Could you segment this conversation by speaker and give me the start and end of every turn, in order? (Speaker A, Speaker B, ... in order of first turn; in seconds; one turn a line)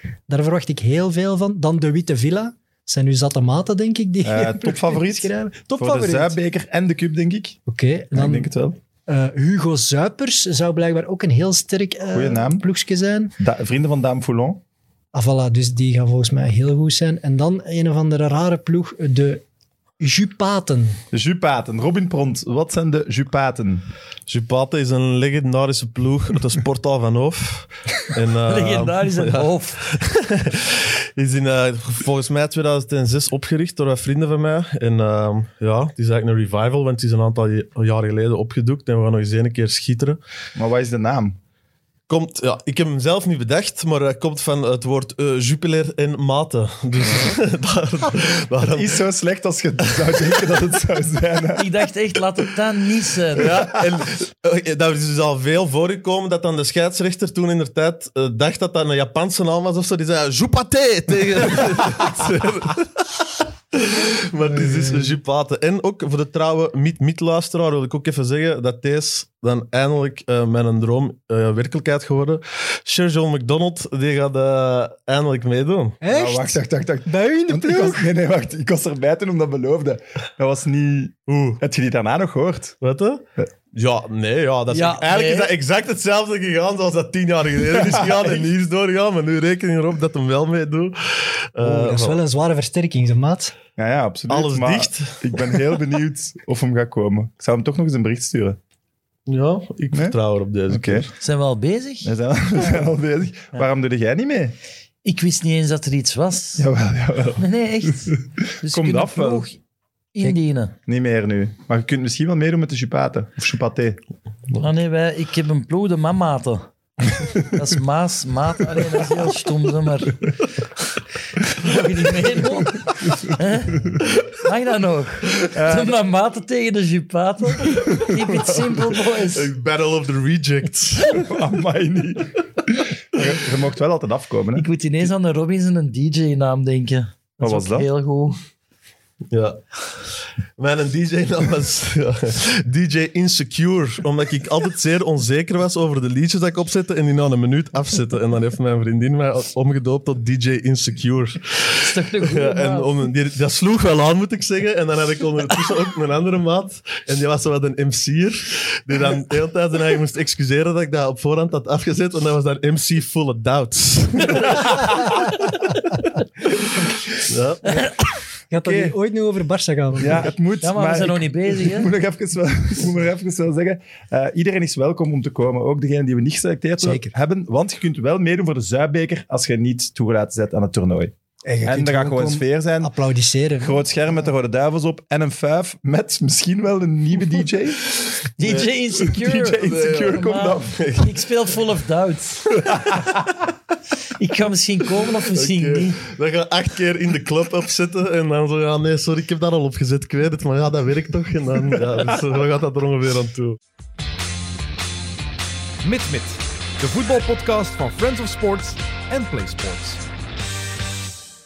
Speaker A: 0.3-6.0
Speaker B: 4.2-7.6
Speaker A: 7.7-8.5
Speaker B: 8.1-8.8
Speaker A: 9.1-13.3
Speaker B: 12.1-12.6
Speaker B: 13.4-14.6
Speaker A: 15.1-19.4
Speaker A: 20.0-21.0
Speaker B: 21.1-23.8
Speaker C: 24.3-40.2
Speaker D: 28.4-29.9
Speaker B: 40.5-41.4
Speaker C: 42.1-49.0
Speaker B: 48.6-51.8
Speaker D: 51.5-53.8
Speaker C: 53.3-76.0
Speaker A: 64.7-65.1
Speaker A: 76.0-78.1
Speaker B: 76.1-82.8
Speaker C: 81.3-81.6
Speaker C: 82.8-92.2
Speaker D: 84.7-85.5
Speaker A: 91.6-93.5
Speaker B: 93.8-98.6
Speaker C: 94.3-95.6
Speaker C: 99.3-101.1
Speaker B: 100.7-101.1
Speaker D: 101.2-102.1
Speaker B: 102.0-104.5
Speaker D: 105.0-106.7
Speaker B: 106.6-107.5
Speaker D: 107.4-109.6
Speaker B: 108.0-109.5
Speaker D: 110.1-110.7
Speaker B: 110.9-114.0
Speaker D: 114.6-116.7
Speaker D: 117.4-120.4
Speaker D: 121.5-129.5
Speaker B: 125.5-125.9
Speaker B: 127.9-128.4
Speaker C: 129.2-131.2
Speaker B: 131.2-134.7
Speaker D: 134.5-138.4
Speaker B: 137.4-137.9
Speaker C: 139.3-164.8
Speaker D: 151.8-152.9
Speaker B: 164.5-165.1
Speaker C: 167.3-167.8
Speaker D: 167.7-167.9
Speaker A: 168.5-170.3
Speaker B: 168.6-168.9
Speaker B: 170.0-182.9
Speaker D: 170.6-171.9
Speaker A: 176.8-177.1
Speaker A: 181.4-183.8
Speaker B: 183.6-187.9
Speaker D: 188.4-192.8
Speaker C: 188.4-188.7
Speaker B: 189.2-190.8
Speaker C: 189.6-190.2
Speaker C: 190.7-191.1
Speaker D: 194.1-196.0
Speaker C: 195.2-203.6
Speaker E: 205.8-210.0